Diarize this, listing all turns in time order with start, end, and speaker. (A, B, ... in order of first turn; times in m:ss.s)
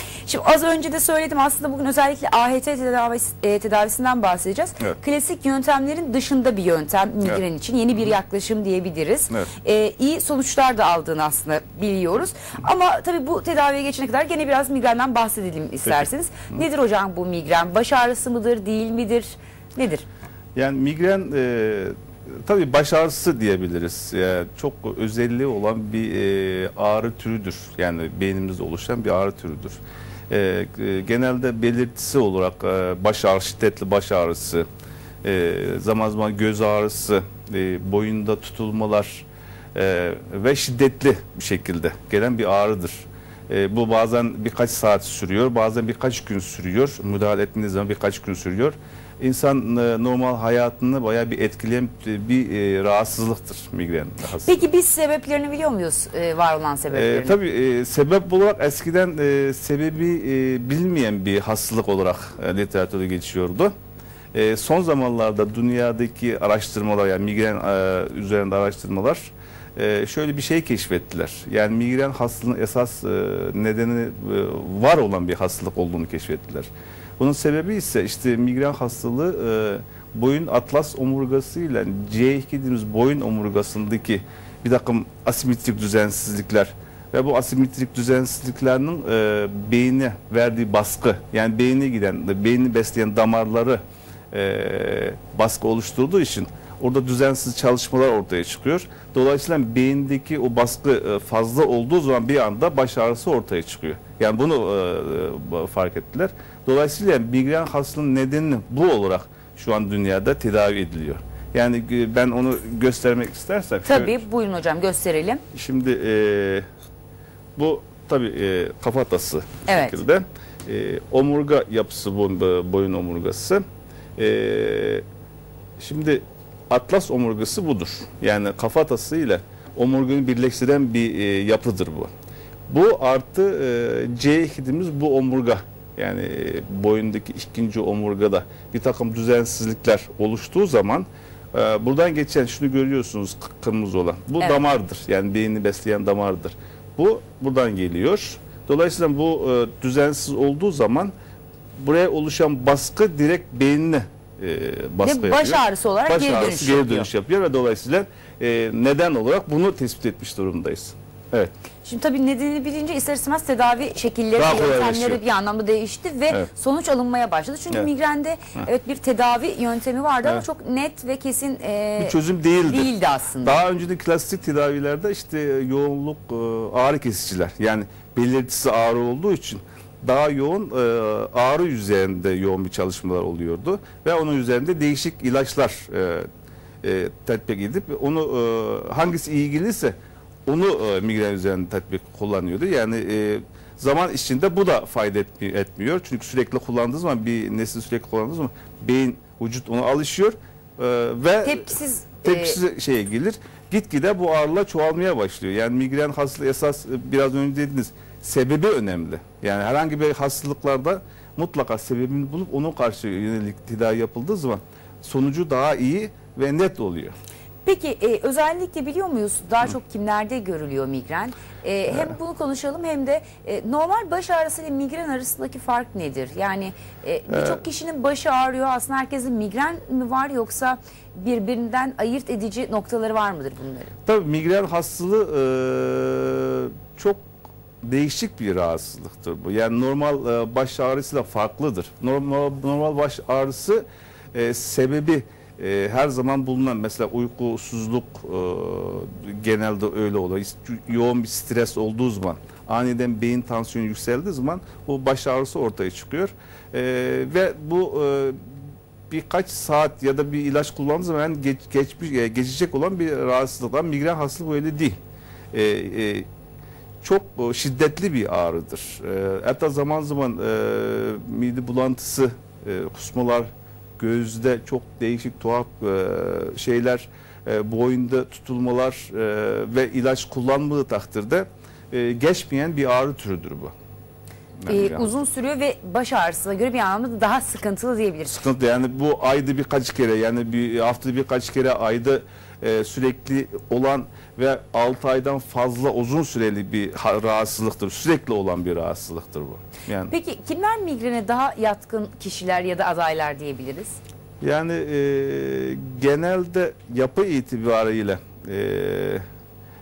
0:00.2-0:20.0 A
0:20.6-0:29.8 B
0:30.3-0:34.7 B
0:35.2-0:54.6 B
0:54.4-0:57.4 A
0:56.9-1:03.7 B
1:04.3-1:33.8 B
1:34.3-1:54.2 B
1:53.9-1:55.4 A
1:55.5-1:56.7 B
1:57.6-2:03.6 B
1:59.7-2:00.0 A
2:04.2-2:05.0 B
2:05.8-2:12.1 B
2:12.7-2:31.1 B
2:31.8-2:41.5 B
2:35.0-2:37.1 A
2:41.8-2:53.6 A
2:44.4-2:45.2 B
2:52.0-2:52.9 B
2:53.4-3:06.3 B
3:06.8-3:37.2 B
3:21.4-3:22.6 A
3:37.6-3:53.9 A
3:47.3-3:47.6 B
3:54.1-3:57.2 B
3:57.8-4:25.0 B
4:25.5-4:26.3 B
4:27.0-4:43.7 B
4:44.6-4:45.2 B
4:44.7-4:48.4 A
4:48.3-5:00.1 B
5:00.1-5:04.0 A
5:04.4-5:09.2 B